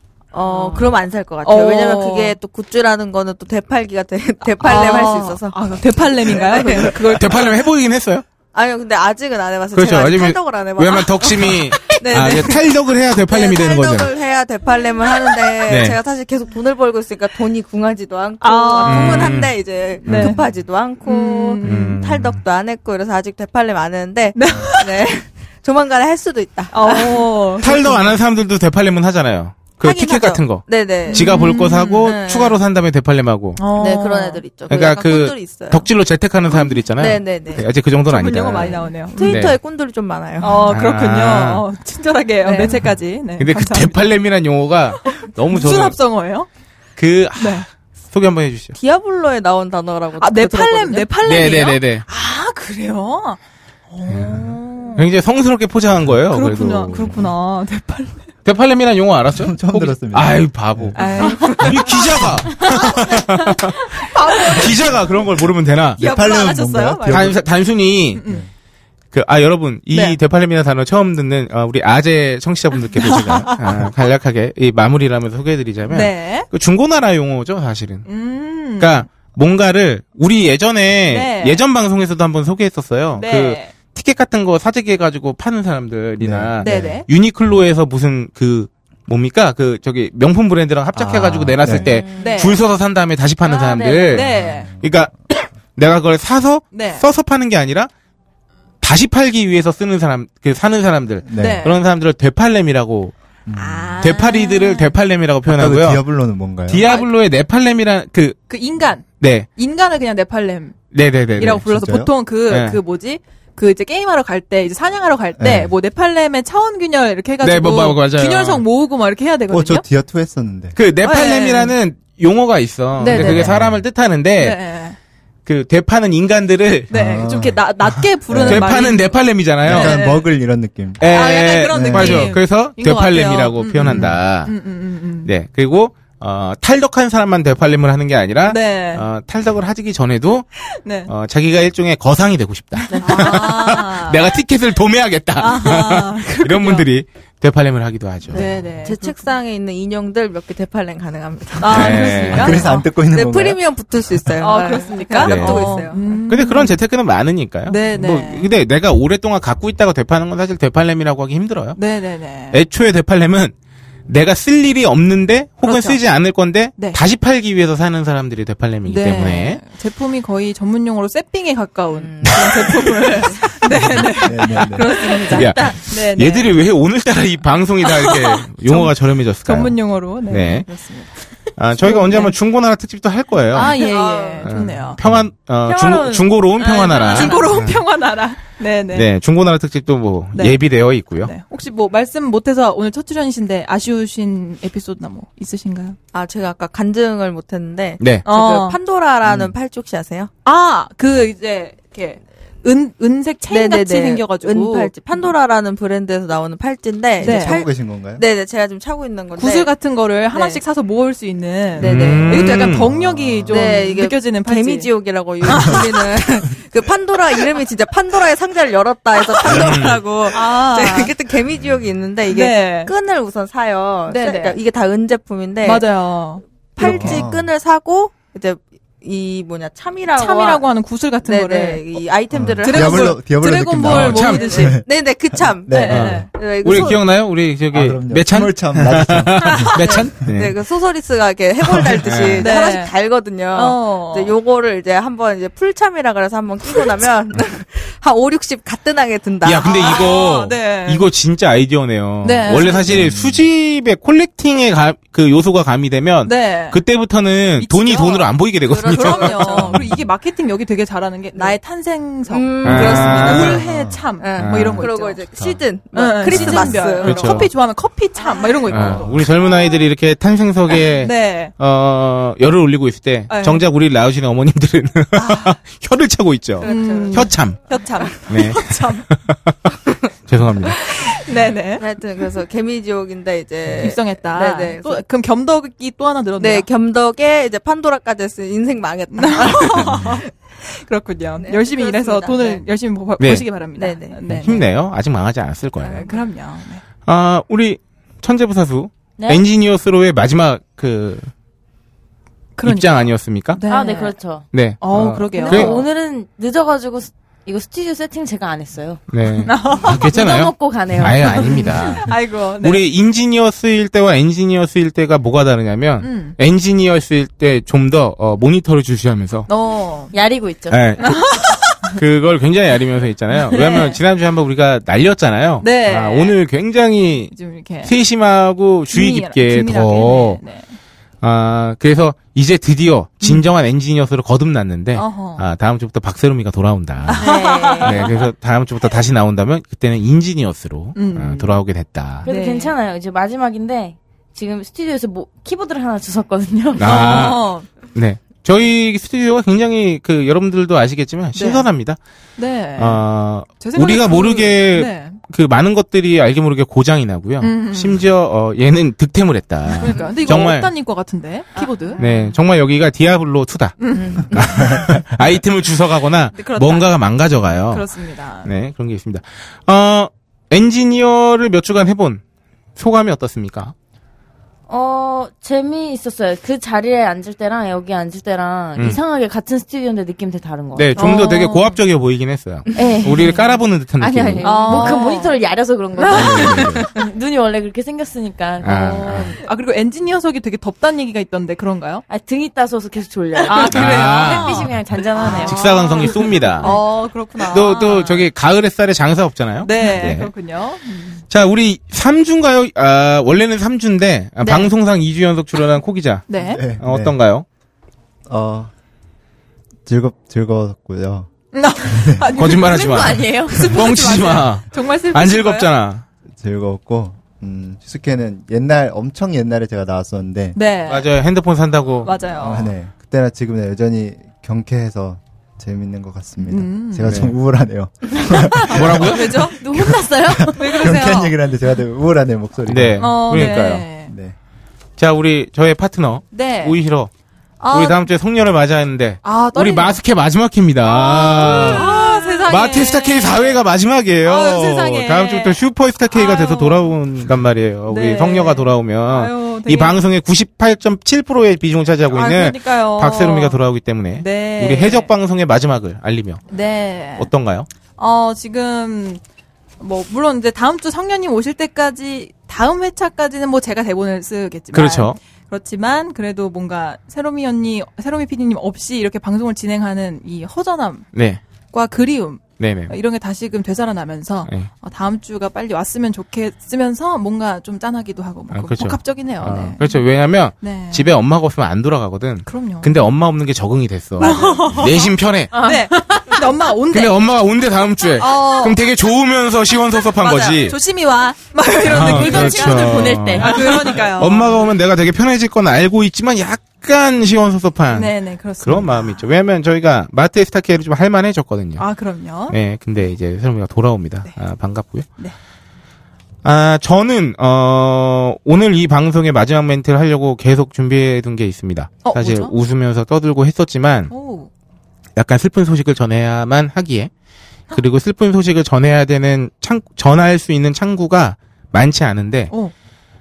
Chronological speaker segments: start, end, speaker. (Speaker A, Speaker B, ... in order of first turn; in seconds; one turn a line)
Speaker A: 0.3-7.4
Speaker B: 0.5-0.8
Speaker B: 1.4-2.4
Speaker B: 4.6-7.6
Speaker C: 7.0-8.2
Speaker A: 8.5-28.1
Speaker C: 9.7-14.1
Speaker C: 15.6-16.0
Speaker B: 18.4-19.4
Speaker C: 18.8-20.4
Speaker B: 20.1-20.4
Speaker B: 21.0-21.9
Speaker C: 21.6-22.4
Speaker B: 24.3-25.1
Speaker B: 26.7-28.1
Speaker C: 27.6-33.6
Speaker A: 29.8-32.6
Speaker B: 31.1-32.1
Speaker B: 33.6-34.4
Speaker A: 33.7-35.9
Speaker C: 34.7-39.6
Speaker A: 36.5-37.7
Speaker B: 38.1-39.5
Speaker A: 38.5-40.7
Speaker B: 40.4-44.1
Speaker C: 40.7-41.6
Speaker A: 42.4-42.9
Speaker C: 43.4-46.0
Speaker B: 45.0-46.5
Speaker C: 47.0-48.8
Speaker B: 47.4-47.7
Speaker A: 48.7-51.6
Speaker B: 50.2-53.4
Speaker C: 51.2-52.0
Speaker B: 53.9-55.0
Speaker C: 54.1-57.2
Speaker B: 56.3-58.3
Speaker C: 58.4-66.0
Speaker D: 59.3-62.5
Speaker B: 60.9-63.3
Speaker B: 63.8-65.0
Speaker D: 66.0-67.4
Speaker B: 66.0-67.4
Speaker C: 67.1-68.2
Speaker B: 68.1-68.4
Speaker C: 69.1-78.1
Speaker B: 69.9-70.2
Speaker B: 73.0-73.9
Speaker B: 75.9-76.5
Speaker B: 78.0-79.1
Speaker C: 78.8-97.9
Speaker B: 81.1-81.6
Speaker B: 83.1-83.8
Speaker D: 86.2-87.0
Speaker B: 86.6-87.1
Speaker D: 90.9-92.0
Speaker E: 91.8-92.5
Speaker B: 92.2-92.6
Speaker E: 93.4-94.0
Speaker B: 94.0-94.7
Speaker D: 94.2-94.9
Speaker B: 96.7-97.0
Speaker C: 98.8-103.1
Speaker D: 101.2-101.7
Speaker B: 101.3-101.8
Speaker D: 103.5-103.9
Speaker B: 103.5-105.0
Speaker C: 104.0-106.0
Speaker D: 105.5-106.9
Speaker C: 106.7-108.4
Speaker B: 106.8-107.1
Speaker B: 108.5-110.8
Speaker C: 109.2-109.5
Speaker C: 110.9-111.7
Speaker B: 111.4-119.8
Speaker D: 111.4-112.1
Speaker C: 112.5-112.8
Speaker D: 115.4-115.7
Speaker C: 117.4-118.6
Speaker D: 119.5-120.8
Speaker C: 120.7-124.6
Speaker B: 121.0-121.7
Speaker B: 123.0-123.6
Speaker D: 123.1-123.8
Speaker B: 124.4-125.0
Speaker C: 125.5-127.2
Speaker D: 126.9-127.7
Speaker B: 126.9-130.3
Speaker D: 128.3-128.8
Speaker C: 128.4-130.0
Speaker D: 129.6-132.3
Speaker C: 131.0-134.5
Speaker B: 131.0-135.3
Speaker D: 133.8-134.2
Speaker C: 135.2-140.4
Speaker B: 138.4-139.1
Speaker B: 140.7-141.1
Speaker C: 141.1-148.4
Speaker A: 142.9-143.5
Speaker B: 143.0-144.4
Speaker B: 145.4-146.9
Speaker A: 148.3-156.2
Speaker B: 148.3-149.3
Speaker B: 151.6-152.8
Speaker C: 151.7-152.6
Speaker D: 152.3-153.6
Speaker B: 154.4-156.8
Speaker C: 155.2-161.8
Speaker B: 157.7-158.5
Speaker B: 161.8-162.6
Speaker C: 162.5-163.5
Speaker C: 164.1-169.6
Speaker B: 165.6-166.0
Speaker B: 166.7-167.0
Speaker B: 168.8-176.5
Speaker A: 171.9-175.9
Speaker D: 174.2-174.9
Speaker C: 175.3-180.7
Speaker B: 177.8-178.9
Speaker B: 179.4-181.2
Speaker C: 181.5-183.8
Speaker B: 181.8-182.3
Speaker B: 183.5-185.0
Speaker A: 183.5-184.5
Speaker C: 184.4-187.8
Speaker D: 185.0-185.3
Speaker A: 185.6-187.6
Speaker B: 186.7-189.1
Speaker C: 188.9-191.3
Speaker B: 190.3-190.6
Speaker B: 191.2-196.0
Speaker A: 196.1-200.3
Speaker C: 198.0-198.3
Speaker B: 198.3-198.8
Speaker B: 200.4-205.3
Speaker A: 203.5-209.7
Speaker B: 207.2-207.6
Speaker D: 207.2-208.2
Speaker B: 209.4-214.9
Speaker A: 210.3-210.6
Speaker A: 211.8-212.7
Speaker C: 211.8-212.9
Speaker D: 212.7-213.6
Speaker A: 213.5-225.9
Speaker B: 215.4-216.2
Speaker C: 219.5-220.0
Speaker B: 220.3-221.1
Speaker B: 222.3-222.9
Speaker B: 224.1-224.6
Speaker B: 225.6-227.2
Speaker A: 226.8-230.7
Speaker D: 226.8-227.5
Speaker B: 230.1-232.0
Speaker A: 231.2-233.2
Speaker D: 232.3-236.9
Speaker B: 232.6-234.8
Speaker C: 233.8-234.7
Speaker A: 234.2-237.1
Speaker B: 235.7-236.3
Speaker C: 235.9-240.6
Speaker D: 237.7-240.3
Speaker A: 239.5-250.2
Speaker D: 241.7-242.1
Speaker C: 242.0-242.7
Speaker B: 242.4-242.9
Speaker B: 243.5-244.3
Speaker C: 249.4-259.8
Speaker B: 249.8-251.0
Speaker B: 252.2-253.0
Speaker A: 252.4-253.0
Speaker D: 252.9-253.4
Speaker B: 256.2-256.8
Speaker B: 257.6-258.3
Speaker A: 258.6-259.9
Speaker B: 258.8-265.2
Speaker A: 262.3-263.6
Speaker C: 262.6-263.6
Speaker D: 263.5-264.0
Speaker A: 264.2-267.5
Speaker C: 264.4-265.6
Speaker B: 265.9-269.2
Speaker C: 266.3-267.5
Speaker A: 268.2-269.6
Speaker C: 268.7-277.6
Speaker B: 271.0-271.5
Speaker B: 273.3-273.6
Speaker B: 275.1-275.6
Speaker A: 276.6-278.2
Speaker B: 276.6-279.0
Speaker C: 278.3-279.6
Speaker C: 280.3-280.8
Speaker A: 280.6-285.0
Speaker B: 280.9-281.8
Speaker B: 283.8-286.7
Speaker A: 286.4-290.3
Speaker B: 289.1-294.6
Speaker A: 291.4-292.6
Speaker C: 293.2-293.5
Speaker A: 293.7-294.7
Speaker C: 294.3-296.1
Speaker B: 295.8-296.8
Speaker A: 295.8-296.2
Speaker C: 297.0-301.3
Speaker E: 299.2-299.4
Speaker B: 302.6-304.1
Speaker C: 302.6-303.6
Speaker E: 303.7-304.4
Speaker C: 304.5-305.8
Speaker B: 304.8-305.8
Speaker E: 305.3-309.0
Speaker C: 309.1-319.5
Speaker B: 309.4-310.1
Speaker E: 309.9-312.0
Speaker B: 311.2-312.8
Speaker B: 316.0-316.4
Speaker B: 319.5-320.1
Speaker E: 320.1-321.0
Speaker C: 320.7-330.4
Speaker B: 321.0-321.9
Speaker B: 323.5-324.0
Speaker B: 325.6-326.3
Speaker B: 327.3-327.9
Speaker B: 328.9-330.8
Speaker C: 331.2-337.3
Speaker B: 334.9-335.4
Speaker B: 337.0-338.1
Speaker E: 337.2-338.1
Speaker C: 337.8-342.3
Speaker B: 340.9-341.6
Speaker E: 342.2-347.3
Speaker B: 342.2-342.7
Speaker C: 346.8-352.0
Speaker B: 346.8-347.7
Speaker B: 351.3-351.7
Speaker B: 352.4-353.0
Speaker C: 352.8-360.7
Speaker B: 353.5-355.2
Speaker B: 357.4-358.0
Speaker B: 359.7-362.1
Speaker C: 362.0-367.9
Speaker B: 363.8-364.9
Speaker E: 363.9-364.4
Speaker B: 366.3-366.9
Speaker B: 367.7-368.5
Speaker C: 368.4-372.2
Speaker C: 372.8-373.7
Speaker E: 374.7-381.2
Speaker C: 380.7-385.0
Speaker B: 380.9-381.8
Speaker E: 382.7-389.4
Speaker B: 384.4-385.4
Speaker B: 386.0-386.9
Speaker C: 386.1-386.9
Speaker C: 388.6-389.3
Speaker B: 389.1-392.0
Speaker E: 392.1-396.8
Speaker B: 393.4-398.3
Speaker C: 393.7-394.7
Speaker C: 395.2-396.8
Speaker C: 397.5-400.3
Speaker B: 399.6-401.2
Speaker C: 401.3-407.4
Speaker B: 404.4-404.7
Speaker B: 406.3-406.6
Speaker D: 406.4-407.1
Speaker D: 408.2-408.7
Speaker D: 409.9-412.6
Speaker B: 411.5-415.7
Speaker C: 412.3-416.0
Speaker D: 416.3-420.6
Speaker B: 420.5-421.1
Speaker C: 420.9-422.1
Speaker B: 422.0-422.7
Speaker D: 422.4-434.4
Speaker B: 426.4-427.1
Speaker C: 427.0-427.3
Speaker B: 428.2-431.4
Speaker C: 428.7-429.6
Speaker C: 432.6-433.9
Speaker B: 433.0-434.1
Speaker C: 435.0-437.1
Speaker B: 436.3-436.8
Speaker B: 437.6-438.0
Speaker C: 437.7-456.4
Speaker B: 439.2-440.0
Speaker B: 440.8-443.6
Speaker A: 441.4-442.3
Speaker B: 444.2-446.9
Speaker B: 447.9-450.0
Speaker B: 452.1-453.6
Speaker B: 454.1-455.1
Speaker B: 456.5-457.3
Speaker C: 457.2-457.7
Speaker B: 458.0-459.2
Speaker B: 459.8-471.1
Speaker C: 464.7-465.2
Speaker C: 471.1-471.4
Speaker B: 471.7-480.0
Speaker C: 472.6-473.0
Speaker C: 478.5-485.5
Speaker B: 480.6-481.1
Speaker B: 482.4-483.0
Speaker B: 484.2-487.2
Speaker E: 484.2-484.9
Speaker E: 485.5-486.4
Speaker C: 486.9-490.8
Speaker B: 488.1-488.8
Speaker B: 490.1-494.6
Speaker C: 491.8-501.8
Speaker E: 491.9-493.9
Speaker B: 497.9-499.2
Speaker B: 501.8-502.6
Speaker C: 502.5-505.1
Speaker C: 506.4-514.1
Speaker B: 512.0-512.5
Speaker B: 514.1-514.5
Speaker C: 515.1-517.1
Speaker C: 517.7-522.5